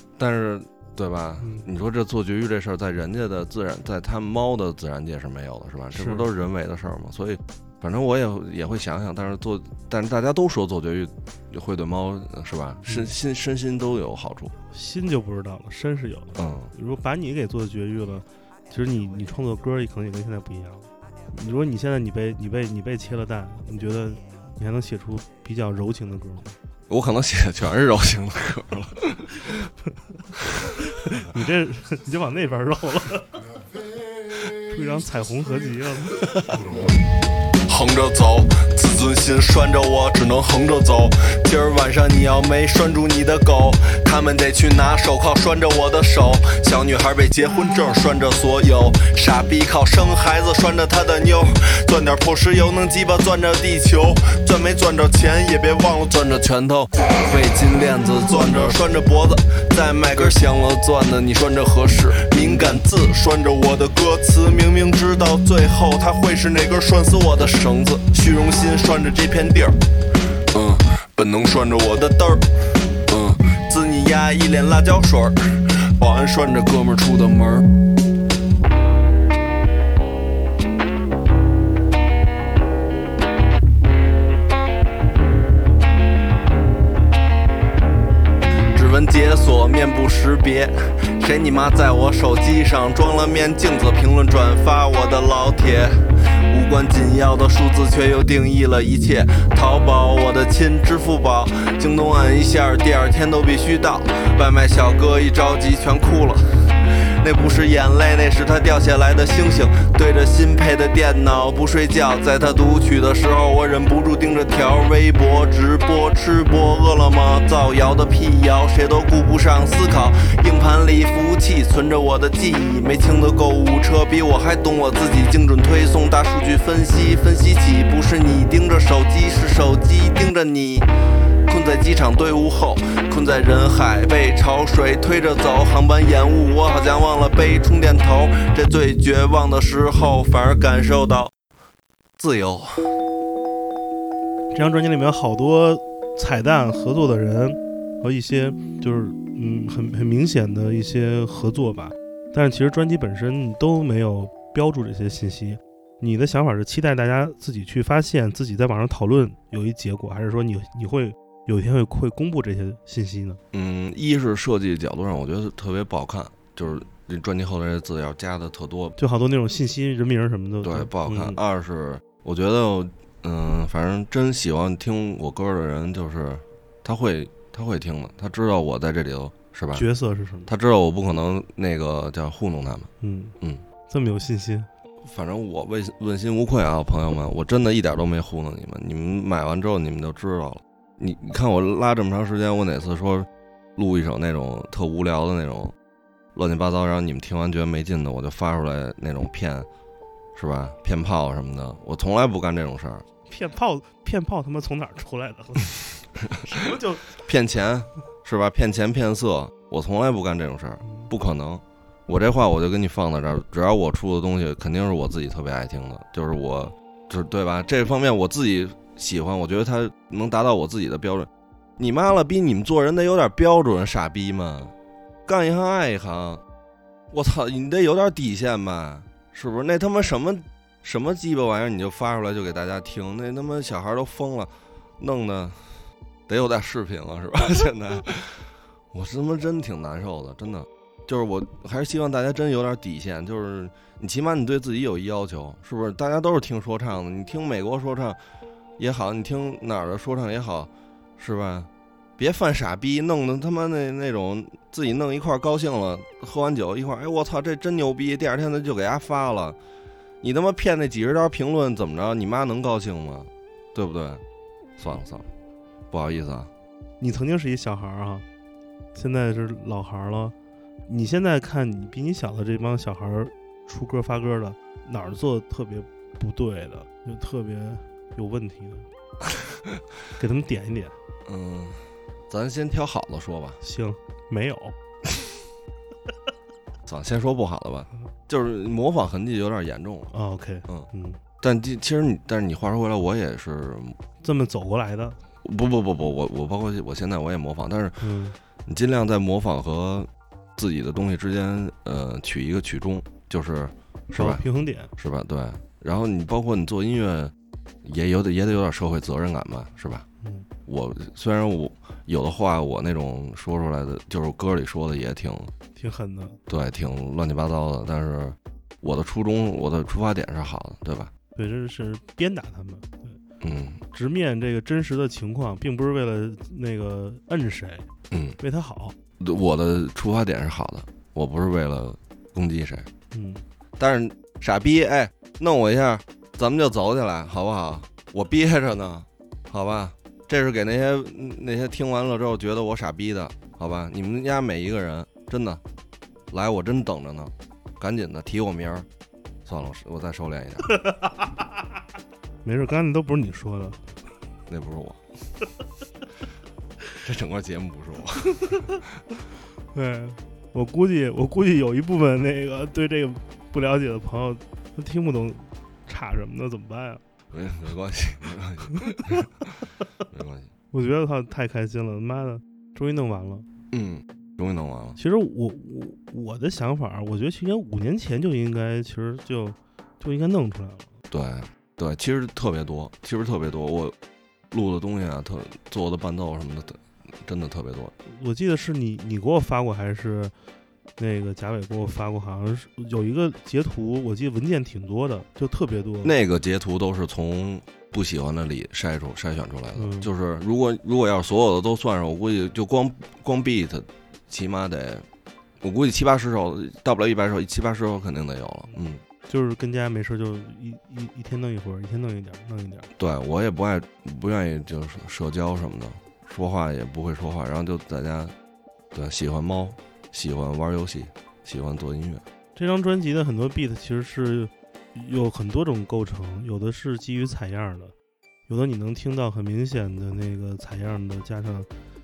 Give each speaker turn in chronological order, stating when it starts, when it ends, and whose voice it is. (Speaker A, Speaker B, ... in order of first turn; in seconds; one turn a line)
Speaker A: 0.2-14.5
Speaker B: 1.4-1.7
Speaker B: 5.9-6.3
Speaker B: 12.8-13.1
Speaker B: 14.7-26.6
Speaker A: 16.4-16.7
Speaker A: 26.9-29.5
Speaker B: 31.1-33.4
Speaker B: 34.7-36.3
Speaker C: 37.7-69.8
Speaker C: 70.5-72.5
Speaker C: 73.1-75.4
Speaker C: 76.0-77.7
Speaker C: 88.7-96.0
Speaker C: 96.5-106.4
Speaker C: 107.2-130.9
Speaker C: 131.4-141.3
Speaker C: 142.2-142.7
Speaker B: 144.5-163.4
Speaker A: 163.5-168.9
Speaker B: 169.0-171.4
Speaker A: 170.6-179.9
Speaker B: 179.7-180.5
Speaker A: 180.5-182.9
Speaker B: 183.0-183.3
Speaker B: 183.9-184.7
Speaker A: 185.0-195.7
Speaker A: 196.3-199.7
Speaker A: 200.3-203.0
Speaker B: 203.3-207.2
Speaker A: 207.2-224.7
Speaker B: 210.8-211.1
Speaker A: 225.2-226.4
Speaker A: 227.1-248.2
Speaker A: 248.8-259.6
Speaker A: 260.2-264.2
Speaker A: 264.8-265.3
Speaker A: 265.9-266.5
Speaker B: 267.0-268.2
Speaker B: 268.9-270.3
Speaker B: 270.9-278.9
Speaker B: 280.2-280.9
Speaker A: 281.2-283.6
Speaker B: 283.6-284.7
Speaker A: 286.9-290.1
Speaker B: 290.1-291.2
Speaker A: 291.4-294.0
Speaker B: 294.2-295.2
Speaker A: 295.4-298.1
Speaker B: 298.0-298.4
Speaker A: 298.6-304.4
Speaker B: 304.1-304.9
Speaker A: 305.0-307.3
Speaker A: 307.8-310.0
Speaker B: 310.2-310.5
Speaker A: 310.6-315.5
Speaker B: 315.7-316.4
Speaker A: 316.5-321.1
Speaker B: 321.3-323.2
Speaker A: 323.4-323.8
Speaker B: 323.9-327.9
Speaker A: 328.1-328.4
Speaker B: 328.4-328.9
Speaker A: 329.2-332.9
Speaker B: 333.1-333.4
Speaker A: 333.8-345.6
Speaker A: 346.3-348.9
Speaker A: 349.4-350.8
Speaker B: 350.8-351.3
Speaker B: 352.4-353.9
Speaker A: 354.5-355.0
Speaker A: 357.0-358.8
Speaker B: 359.7-367.0
Speaker A: 367.3-369.4
Speaker A: 370.1-370.5
Speaker B: 370.7-373.4
Speaker A: 373.7-375.0
Speaker B: 375.0-380.9
Speaker A: 381.1-383.9
Speaker A: 384.5-387.9
Speaker B: 388.0-390.3
Speaker B: 391.0-396.1
Speaker A: 396.0-405.1
Speaker B: 399.7-400.1
Speaker A: 405.6-409.0
Speaker B: 409.3-412.9
Speaker A: 413.0-418.3
Speaker A: 418.9-422.2
Speaker B: 422.6-427.9
Speaker B: 428.5-431.7